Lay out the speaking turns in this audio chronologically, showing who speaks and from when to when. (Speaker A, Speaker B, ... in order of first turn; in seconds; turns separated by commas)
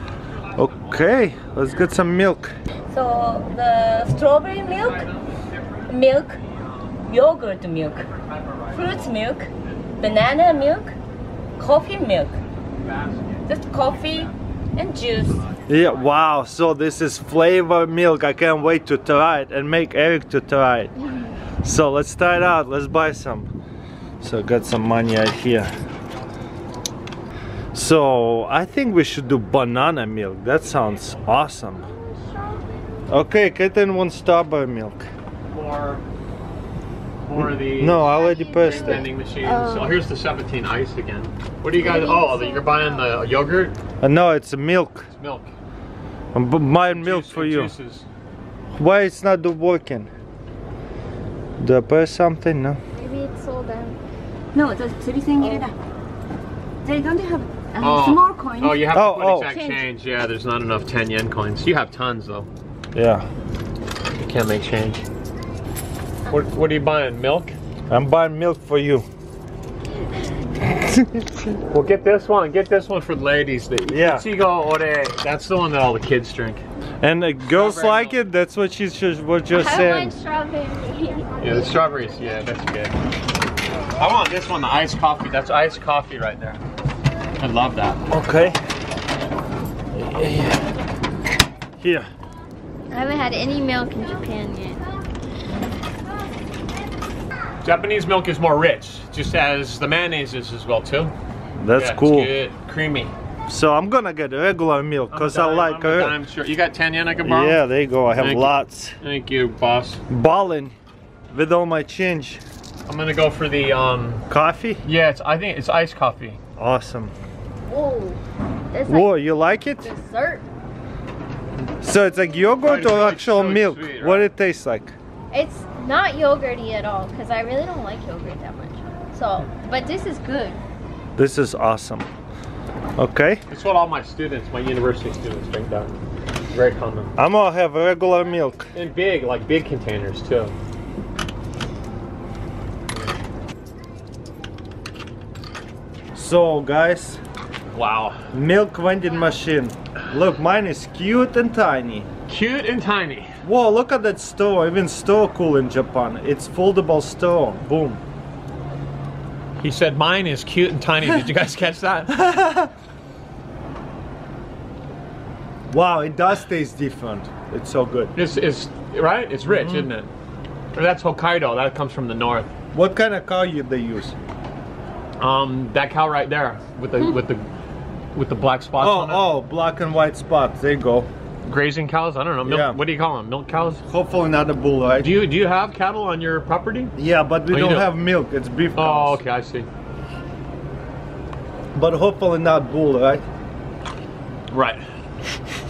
Speaker A: 0.5-2.5, Speaker B: 2.9-5.1, Speaker B: 5.9-6.4, Speaker B: 7.0-8.1, Speaker C: 8.3-9.1, Speaker B: 8.7-10.9, Speaker B: 11.6-12.3, Speaker C: 12.8-13.4, Speaker B: 13.5-15.4, Speaker A: 15.7-20.9, Speaker A: 21.6-23.5, Speaker A: 24.2-25.7, Speaker A: 27.7-31.9, Speaker D: 31.9-32.8, Speaker A: 33.1-35.1, Speaker C: 35.5-36.0, Speaker C: 37.2-43.8, Speaker A: 37.4-39.1, Speaker D: 38.0-40.0, Speaker D: 41.8-43.2, Speaker A: 44.0-45.1, Speaker C: 45.2-45.5, Speaker A: 46.3-47.7, Speaker C: 46.9-48.1, Speaker A: 48.8-50.1, Speaker A: 51.6-52.8, Speaker D: 53.0-54.0, Speaker B: 54.5-55.8, Speaker B: 56.8-58.9, Speaker C: 57.8-62.5, Speaker A: 58.9-59.5, Speaker A: 62.9-63.2, Speaker C: 64.2-65.0, Speaker C: 66.3-67.6, Speaker A: 67.9-69.0, Speaker A: 70.8-71.2, Speaker C: 71.7-76.6, Speaker A: 73.9-74.3, Speaker A: 77.0-80.2, Speaker C: 77.5-78.2, Speaker D: 79.5-81.8, Speaker C: 81.4-83.0, Speaker C: 84.0-86.6, Speaker C: 87.4-88.0, Speaker A: 88.1-88.6, Speaker A: 90.0-90.6, Speaker A: 91.8-92.1, Speaker D: 92.9-94.8, Speaker C: 97.6-101.1, Speaker A: 101.6-102.3, Speaker C: 101.7-103.1, Speaker A: 103.5-106.2, Speaker C: 105.1-110.0, Speaker A: 107.2-109.0, Speaker A: 110.1-110.7, Speaker A: 111.3-112.4, Speaker C: 112.9-114.2, Speaker A: 114.3-114.8, Speaker C: 114.8-116.4, Speaker A: 116.6-117.1, Speaker D: 117.7-118.2, Speaker D: 118.7-119.2, Speaker A: 118.9-119.9, Speaker D: 119.8-120.5, Speaker A: 121.8-124.9, Speaker C: 122.6-124.3, Speaker D: 125.3-130.6, Speaker A: 131.2-132.1, Speaker A: 133.0-133.4, Speaker C: 133.5-136.0, Speaker C: 136.5-137.1, Speaker A: 137.2-138.7, Speaker C: 138.8-140.6, Speaker A: 146.2-147.2, Speaker C: 147.7-148.2, Speaker A: 148.3-152.1, Speaker C: 152.3-153.3, Speaker A: 153.4-158.0, Speaker C: 159.6-162.2, Speaker A: 162.1-162.7, Speaker A: 165.7-168.1, Speaker C: 168.2-170.1, Speaker A: 169.5-169.9, Speaker C: 170.7-172.5, Speaker A: 172.7-174.2, Speaker C: 175.2-177.4, Speaker C: 178.1-179.3, Speaker A: 178.8-181.1, Speaker C: 181.4-183.8, Speaker A: 182.4-182.8, Speaker A: 183.9-185.1, Speaker C: 185.0-186.9, Speaker A: 187.0-189.2, Speaker C: 187.5-188.0, Speaker C: 188.8-189.7, Speaker A: 191.8-193.2, Speaker C: 194.5-194.8